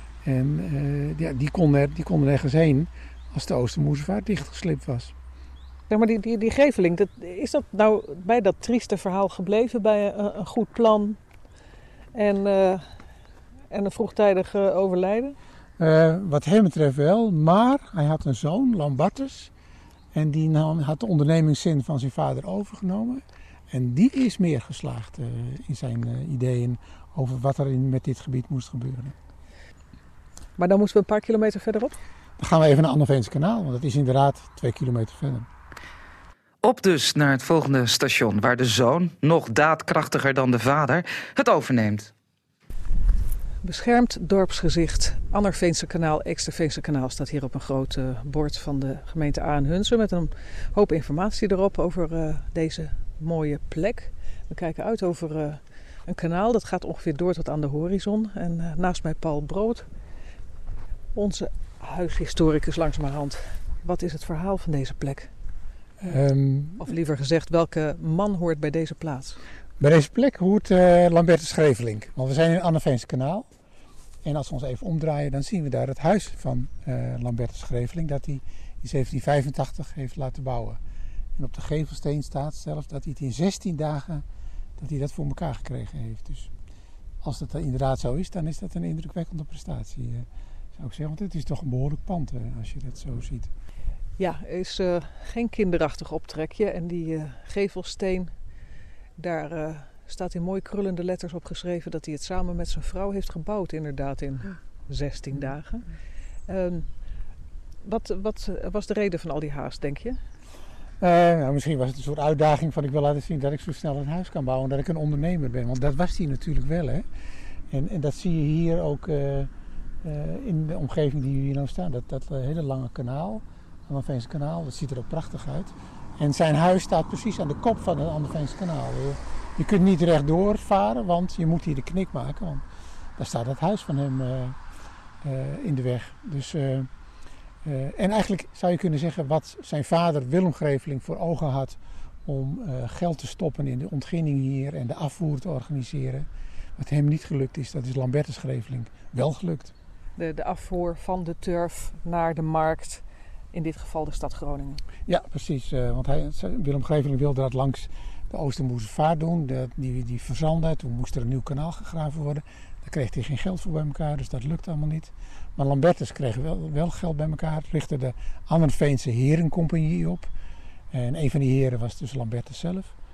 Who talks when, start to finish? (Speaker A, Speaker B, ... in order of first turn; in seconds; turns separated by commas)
Speaker A: 0.2-5.1, Speaker B: 5.9-11.2, Speaker B: 12.1-12.9, Speaker B: 13.7-15.4, Speaker A: 15.8-19.5, Speaker A: 20.1-29.1, Speaker B: 30.6-32.0, Speaker A: 32.4-35.5, Speaker C: 36.6-42.1, Speaker B: 43.6-59.9, Speaker B: 61.1-65.3, Speaker A: 66.0-66.9, Speaker B: 66.8-69.4, Speaker A: 69.8-73.5, Speaker A: 74.2-80.8, Speaker A: 81.4-84.2, Speaker A: 84.8-86.5, Speaker A: 87.2-93.5, Speaker B: 94.2-98.3, Speaker B: 99.2-105.9, Speaker B: 106.5-107.0, Speaker B: 107.8-110.2, Speaker A: 111.0-117.1, Speaker A: 117.7-119.5, Speaker A: 120.0-132.6, Speaker A: 133.2-134.6, Speaker A: 135.2-136.9, Speaker A: 137.7-149.7, Speaker B: 150.2-154.8, Speaker A: 155.1-170.3, Speaker A: 170.9-172.9